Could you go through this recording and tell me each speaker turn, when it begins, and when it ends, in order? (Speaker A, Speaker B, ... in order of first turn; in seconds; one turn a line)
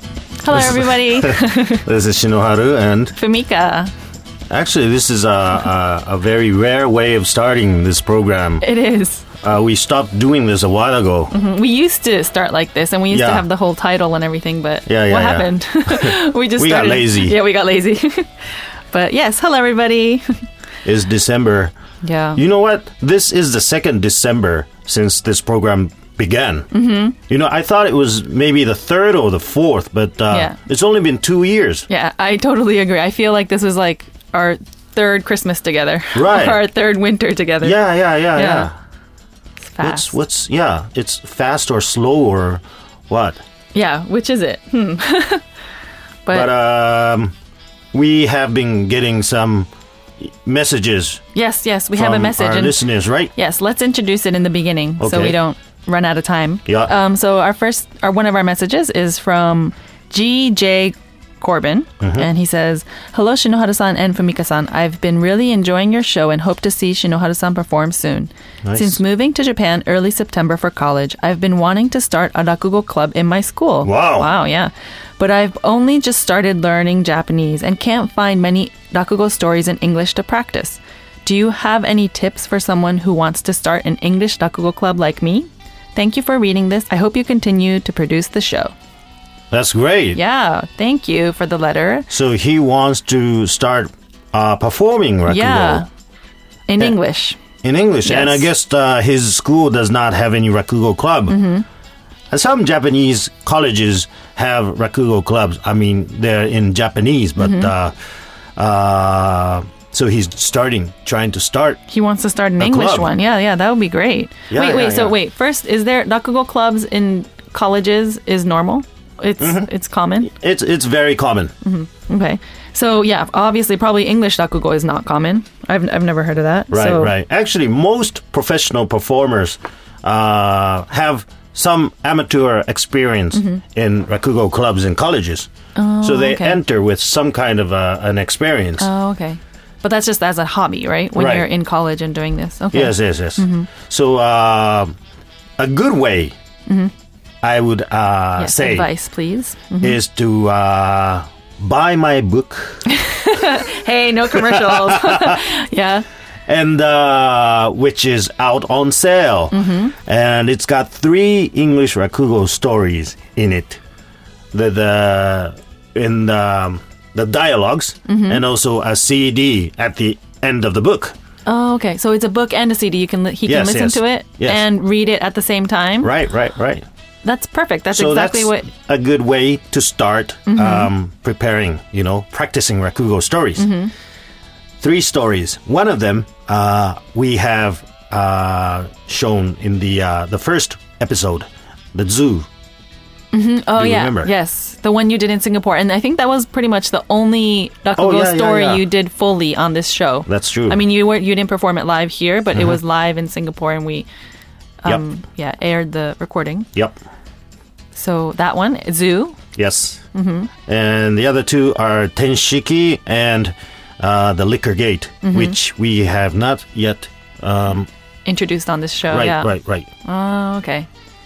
Speaker A: 0.4-1.9
Speaker B: 0.5-3.1
Speaker A: 3.1-3.9
Speaker B: 4.5-8.7
Speaker A: 8.6-9.3
Speaker B: 9.4-11.3
Speaker A: 11.3-20.4
Speaker B: 13.1-13.5
Speaker B: 14.8-17.4
Speaker B: 20.8-21.7
Speaker A: 22.0-22.4
Speaker B: 22.3-26.7
Speaker A: 26.7-27.2
Speaker B: 27.3-31.9
Speaker A: 30.3-30.6
Speaker A: 31.9-37.8
Speaker B: 36.1-36.6
Speaker B: 37.6-38.7
Speaker A: 38.3-38.7
Speaker A: 39.7-40.1
Speaker B: 39.8-43.4
Speaker A: 43.7-45.4
Speaker A: 46.2-46.5
Speaker B: 46.3-47.3
Speaker B: 47.9-51.2
Speaker A: 51.3-88.7
Speaker B: 51.9-53.3
Speaker B: 55.0-55.4
Speaker B: 56.6-56.9
Speaker B: 62.0-62.3
Speaker B: 68.6-69.0
Speaker B: 73.8-74.3
Speaker B: 89.5-90.2
Speaker A: 90.1-92.1
Speaker B: 92.1-95.8
Speaker A: 95.3-95.9
Speaker A: 96.7-97.4
Speaker B: 97.6-101.4
Speaker A: 98.0-98.5
Speaker A: 101.3-101.6
Speaker B: 102.3-107.9
Speaker A: 107.4-107.7
Speaker B: 108.6-111.8
Speaker A: 111.9-120.3
Speaker B: 112.6-113.1
Speaker B: 114.5-115.2
Speaker B: 119.4-119.7
Speaker B: 120.2-121.5
Speaker A: 121.6-127.1
Speaker B: 126.7-138.9
Speaker A: 133.3-133.6
Speaker A: 135.7-136.6
Speaker A: 138.8-143.7
Speaker B: 141.1-141.5
Speaker B: 142.7-144.9
Speaker B: 145.6-146.3
Speaker A: 146.7-146.9
Speaker B: 147.4-148.9
Speaker A: 148.4-150.0
Speaker B: 149.8-152.8
Speaker A: 152.8-156.1
Speaker B: 154.3-155.4
Speaker B: 156.5-163.8
Speaker A: 159.5-159.9
Speaker B: 164.5-171.1
Speaker A: 168.1-168.4
Speaker A: 171.4-176.1
Speaker B: 173.4-174.7
Speaker B: 176.0-176.8
Speaker A: 177.2-178.7
Speaker B: 177.9-183.7
Speaker A: 180.5-180.9
Speaker A: 183.6-183.9
Speaker B: 184.8-192.5
Speaker A: 193.3-204.1
Speaker B: 193.7-194.3
Speaker B: 197.9-198.8
Speaker B: 200.2-200.8
Speaker A: 204.8-206.7
Speaker A: 207.9-209.4
Speaker B: 209.6-210.0
Speaker A: 210.1-210.5
Speaker B: 210.7-217.9
Speaker A: 215.2-215.6
Speaker A: 218.2-219.5
Speaker B: 219.1-219.9
Speaker A: 220.0-220.9